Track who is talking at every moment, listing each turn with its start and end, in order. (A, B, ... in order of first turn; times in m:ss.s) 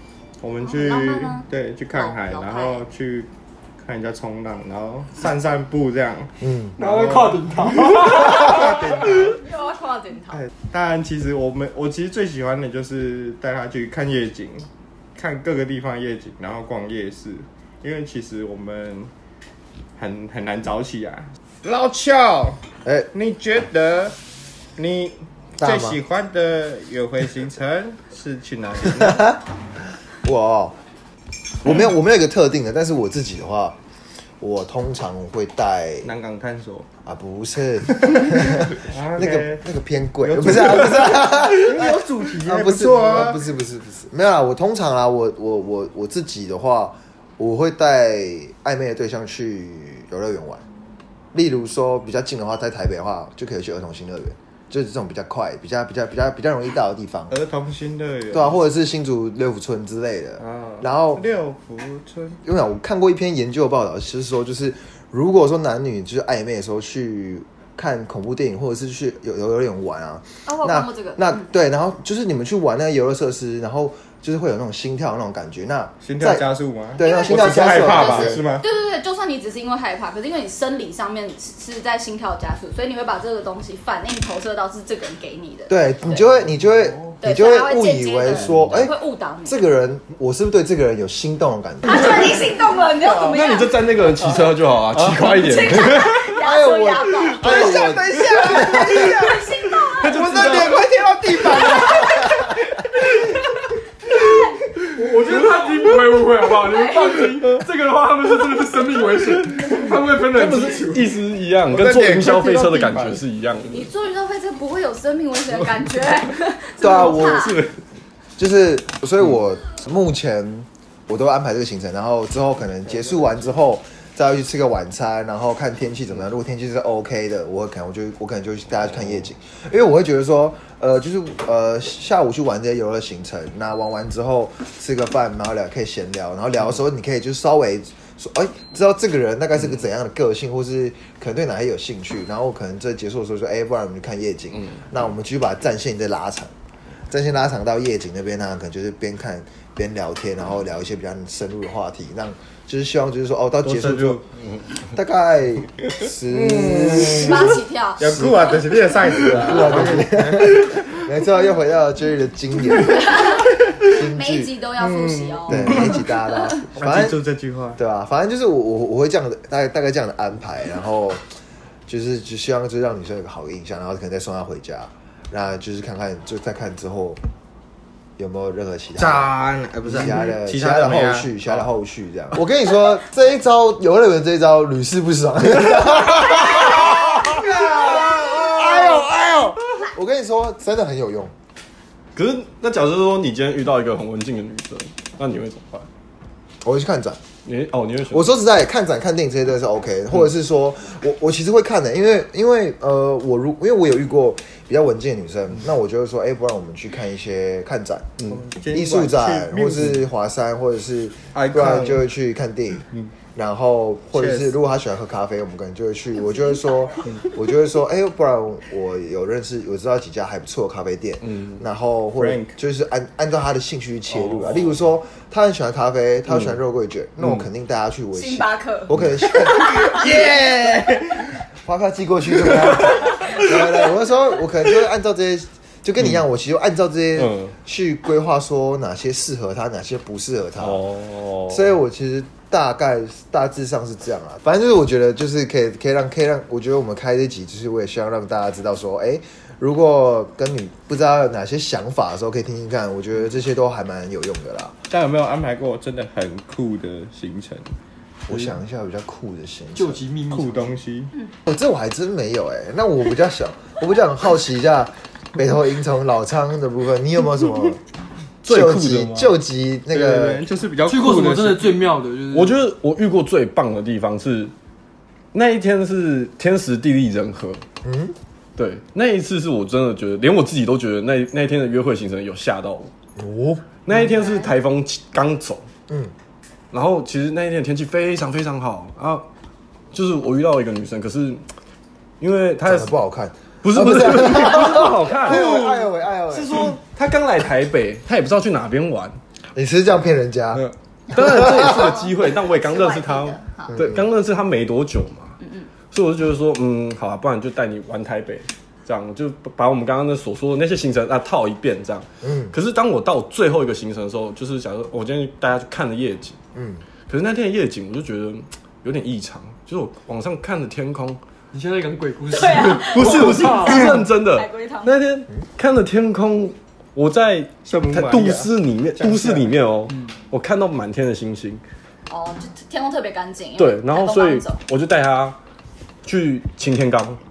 0:00.4-0:03.3 A
0:00.6-0:02.8 B
0:03.8-0:09.4 A
0:06.4-0:06.8 C
0:06.8-0:09.0 D
0:09.0-0:10.5 B
0:10.5-0:19.1 A
0:20.0-0:22.6 A
0:22.8-0:23.1 C
0:23.1-0:24.2 A
0:24.8-0:29.4 A
0:25.6-0:26.0 C
0:30.2-0:30.8 C
0:31.6-0:33.8 C
0:34.4-0:36.1 C
0:36.0-0:36.9 A
0:37.0-0:50.6 C
0:38.0-0:39.6 A
0:40.2-0:43.4 A
0:51.3-0:57.4 C
0:57.3-0:58.6 A
0:58.3-1:01.2 C
1:00.4-1:02.4 A
1:02.4-1:16.4 C
1:10.4-1:11.4 B
1:16.0-1:18.7 A
1:17.0-1:18.4 C
1:17.0-1:26.3 B
1:25.7-1:28.9 C
1:27.2-1:29.6 B
1:29.4-1:32.2 C
1:31.8-1:33.8 B
1:33.0-1:36.3 E
1:35.3-1:40.1 B
1:36.4-1:39.2 C
1:37.4-1:42.6 A
1:40.0-1:40.9 E
1:44.9-1:53.9 E
1:45.0-1:47.7 D
1:46.7-1:47.2 B
1:48.4-1:51.1 D
1:51.7-1:53.2 A
1:53.7-1:57.6 B
1:56.8-1:57.6 C
1:56.9-1:57.7 E
1:58.4-2:26.5 C
2:27.1-2:34.2 C
2:33.6-2:34.2 A
2:34.9-2:38.6 C
2:36.2-2:41.0 A
2:37.1-2:38.2 B
2:39.1-2:43.3 C
2:42.9-2:43.4 B
2:43.8-2:44.5 C
2:44.0-2:46.6 B
2:44.8-2:46.0 A
2:45.5-2:47.2 C
2:46.7-2:47.8 A
2:47.8-2:51.2 C
2:51.9-2:57.2 C
2:58.2-2:59.3 C
2:59.0-3:01.6 A
2:59.9-3:11.3 C
3:07.1-3:09.0 A
3:12.1-3:15.9 E
3:16.6-3:17.2 C
3:17.4-3:18.3 E
3:18.1-3:28.2 C
3:28.3-3:30.0 A
3:28.7-3:49.9 C
3:31.3-3:32.0 A
3:34.1-3:34.5 A
3:41.3-3:41.6 E
3:42.2-3:42.5 A
3:48.1-3:50.1 B
3:49.7-3:51.4 A
3:51.6-4:00.8 C
3:57.2-3:57.5 E
4:00.6-4:01.7 E
4:01.5-4:14.7 C
4:14.9-4:17.7 A
4:18.3-4:20.0 C
4:19.7-4:20.8 D
4:20.3-4:21.1 A
4:21.4-4:27.8 C
4:28.4-4:29.3 E
4:28.5-4:30.4 C
4:29.9-4:31.7 A
4:30.8-4:32.6 D
4:32.3-4:34.5 E
4:35.3-4:37.6 E
4:37.8-4:38.1 C
4:38.6-4:42.9 E
4:43.2-4:43.6 C
4:43.8-4:45.7 E
4:44.1-4:44.5 B
4:46.7-4:49.2 E
4:49.9-4:51.4 E
4:52.2-4:52.9 E
4:52.6-4:56.7 C
4:53.6-4:59.2 E
4:59.5-5:00.6 C
5:00.5-5:05.4 E
5:01.2-5:03.8 B
5:03.7-5:04.0 C
5:05.4-5:05.7 B
5:05.9-5:16.4 E
5:12.2-5:12.5 C
5:16.5-5:16.8 C
5:17.1-5:21.2 E
5:21.5-5:23.9 D
5:22.3-5:25.0 B
5:22.5-5:31.6 E
5:27.6-5:29.5 A
5:32.1-5:34.6 B
5:33.6-5:35.4 E
5:36.0-5:37.2 E